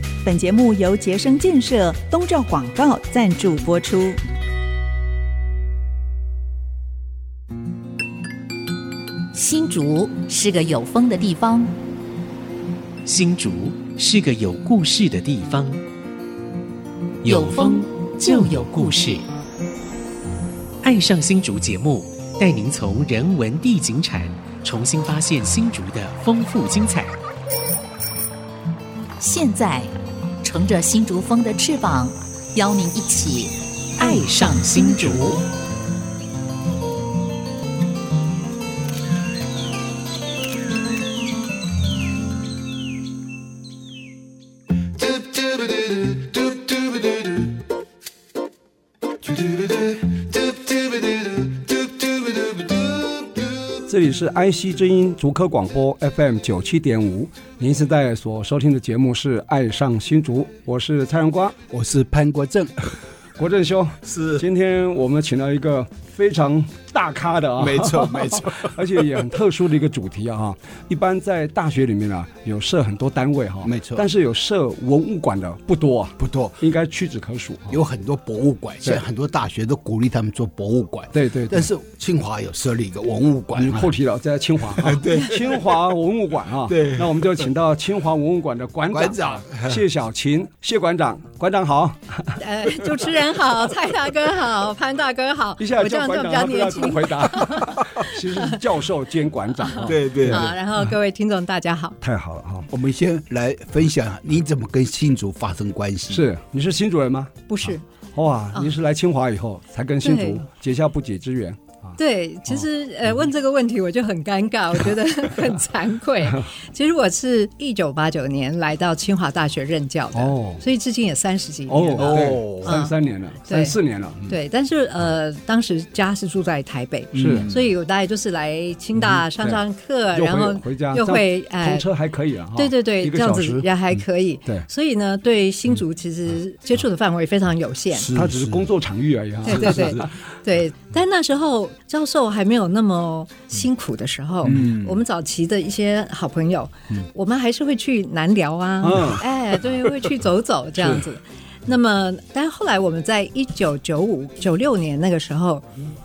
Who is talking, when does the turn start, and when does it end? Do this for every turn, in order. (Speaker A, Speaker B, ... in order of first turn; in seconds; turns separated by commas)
Speaker A: 0.2-4.2, Speaker B: 9.3-11.8, Speaker C: 13.0-15.8, Speaker C: 17.2-19.2, Speaker B: 17.2-19.0, Speaker C: 20.8-27.1, Speaker B: 29.2-35.2, Speaker C: 34.0-35.4, Speaker D: 53.9-61.6, Speaker E: 61.7-62.9, Speaker D: 63.4-77.8, Speaker E: 64.0-64.5, Speaker E: 67.6-68.8, Speaker E: 73.6-74.0, Speaker E: 76.2-76.6, Speaker E: 77.7-83.9, Speaker D: 81.1-81.7, Speaker D: 83.5-92.4, Speaker E: 84.6-85.9, Speaker E: 86.7-87.4, Speaker E: 88.9-89.8, Speaker F: 92.4-98.6, Speaker D: 95.6-100.5, Speaker F: 99.6-102.0, Speaker E: 99.8-100.5, Speaker D: 102.0-102.7, Speaker E: 102.7-106.2, Speaker D: 106.1-107.5, Speaker F: 107.5-107.8, Speaker D: 108.1-112.0, Speaker F: 110.0-110.4, Speaker F: 112.0-122.9, Speaker D: 120.1-120.6, Speaker D: 121.7-124.3, Speaker E: 122.0-122.8, Speaker F: 123.5-123.8, Speaker F: 124.3-131.9, Speaker E: 127.1-127.7, Speaker D: 127.2-127.5, Speaker D: 129.0-129.6, Speaker D: 130.1-133.7, Speaker F: 132.6-138.1, Speaker E: 137.9-138.7, Speaker D: 138.1-140.1, Speaker E: 139.4-140.1, Speaker F: 139.4-155.7, Speaker E: 144.4-145.0, Speaker D: 148.8-149.2, Speaker D: 150.8-151.0